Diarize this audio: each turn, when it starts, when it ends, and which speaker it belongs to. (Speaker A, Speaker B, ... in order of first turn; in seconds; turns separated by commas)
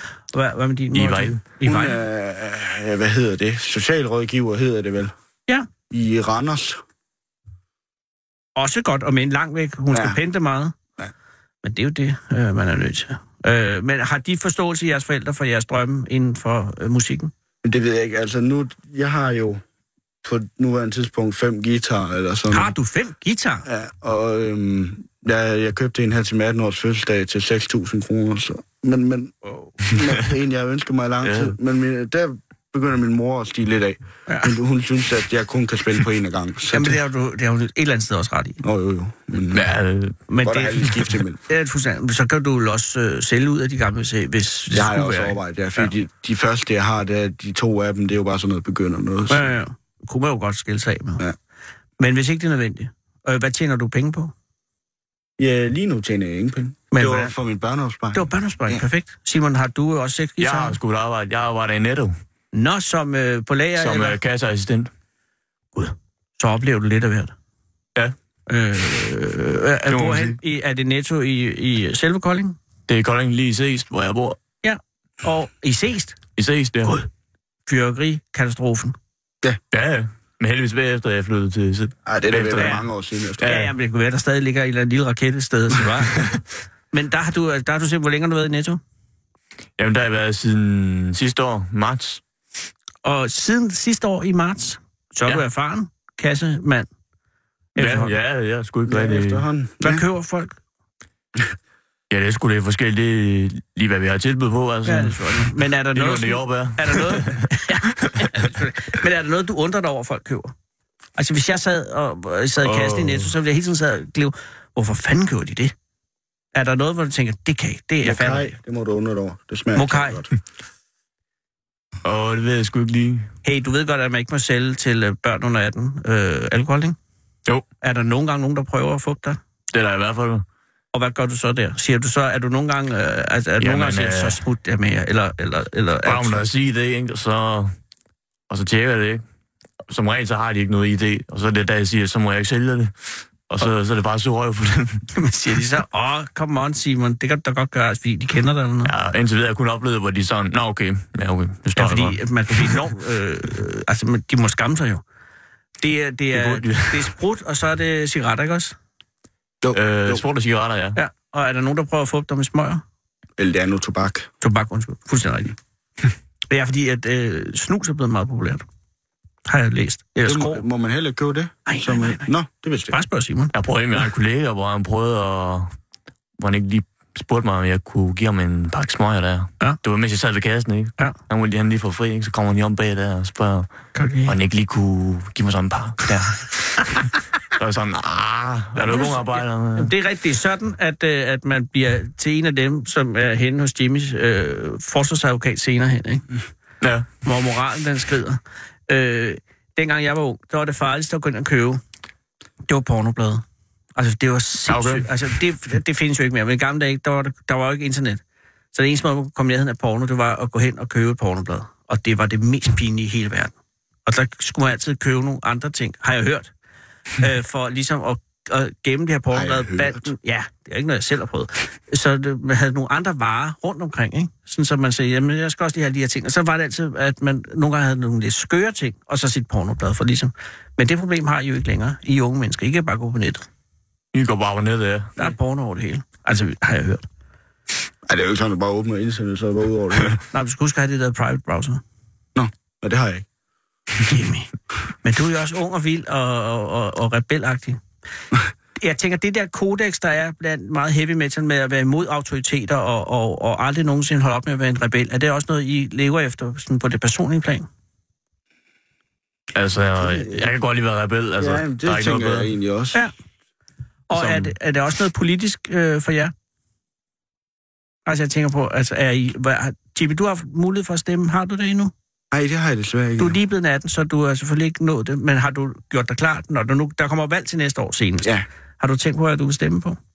Speaker A: 0.3-2.0, Speaker B: 0.9-1.4, Speaker C: 1.6-5.1, Speaker C: 5.9-6.8, Speaker A: 8.6-10.8, Speaker C: 9.9-10.2, Speaker A: 11.6-17.3, Speaker C: 17.6-19.6, Speaker C: 20.2-22.7, Speaker A: 22.5-23.6, Speaker C: 23.6-37.0, Speaker A: 29.4-29.8, Speaker B: 31.2-31.5, Speaker A: 34.3-34.5, Speaker A: 36.7-38.6, Speaker C: 38.6-39.7, Speaker B: 39.5-40.2, Speaker A: 40.3-40.9, Speaker C: 40.4-41.4, Speaker A: 41.5-45.9, Speaker C: 44.7-49.5, Speaker A: 49.3-51.2, Speaker A: 52.0-54.3, Speaker C: 55.4-58.8, Speaker A: 56.9-57.3, Speaker A: 58.1-60.8, Speaker B: 60.4-62.1, Speaker A: 62.5-64.2, Speaker B: 63.8-64.9, Speaker A: 65.7-67.3, Speaker A: 68.5-72.5, Speaker B: 69.9-70.4, Speaker B: 72.9-74.4, Speaker A: 74.6-76.2, Speaker B: 76.3-76.9, Speaker A: 77.7-78.9, Speaker B: 79.7-82.8, Speaker C: 82.0-83.6, Speaker A: 82.5-82.8, Speaker B: 83.4-83.7, Speaker A: 83.4-86.3, Speaker A: 86.9-88.8, Speaker B: 89.8-92.2, Speaker A: 93.0-96.9, Speaker A: 97.7-98.1, Speaker B: 97.8-99.5, Speaker C: 98.9-100.0, Speaker A: 99.8-100.5, Speaker B: 102.1-107.5, Speaker A: 104.8-110.5, Speaker A: 111.2-115.7, Speaker B: 112.6-113.3, Speaker A: 116.5-118.5, Speaker C: 118.0-120.3, Speaker A: 119.7-120.2, Speaker B: 122.0-123.3, Speaker A: 123.4-127.0, Speaker A: 127.8-129.4, Speaker B: 129.7-130.4, Speaker A: 130.9-136.4, Speaker B: 133.6-134.4, Speaker B: 136.0-137.7, Speaker B: 138.5-139.2, Speaker B: 139.9-145.1, Speaker A: 145.1-148.9, Speaker B: 148.8-152.8, Speaker A: 151.8-155.0, Speaker A: 155.8-158.7, Speaker B: 156.3-157.1, Speaker C: 159.6-160.2, Speaker B: 159.7-161.0, Speaker A: 160.9-162.8, Speaker C: 163.4-164.3, Speaker A: 164.4-165.5, Speaker A: 166.5-168.6, Speaker A: 169.4-170.6, Speaker C: 170.2-172.9, Speaker A: 171.7-172.3, Speaker A: 172.9-173.5, Speaker B: 173.5-175.7, Speaker B: 176.4-183.7, Speaker A: 183.9-184.3, Speaker B: 184.3-189.9, Speaker A: 188.7-196.2, Speaker B: 196.8-197.1, Speaker A: 197.2-201.8, Speaker A: 202.7-203.4, Speaker A: 203.9-208.2, Speaker B: 204.7-205.1, Speaker A: 208.7-213.5, Speaker A: 214.1-216.5, Speaker A: 217.2-233.5, Speaker C: 219.3-220.1, Speaker B: 234.1-235.2, Speaker A: 235.2-237.0, Speaker C: 238.0-240.2, Speaker A: 240.3-241.8, Speaker C: 242.3-243.2, Speaker A: 244.0-244.5, Speaker A: 245.0-247.8, Speaker A: 248.8-257.6, Speaker B: 259.5-262.5, Speaker C: 260.0-260.5, Speaker C: 261.4-263.0, Speaker A: 264.1-266.3, Speaker B: 264.1-264.5, Speaker A: 268.1-271.9, Speaker C: 272.3-273.4, Speaker A: 273.2-280.0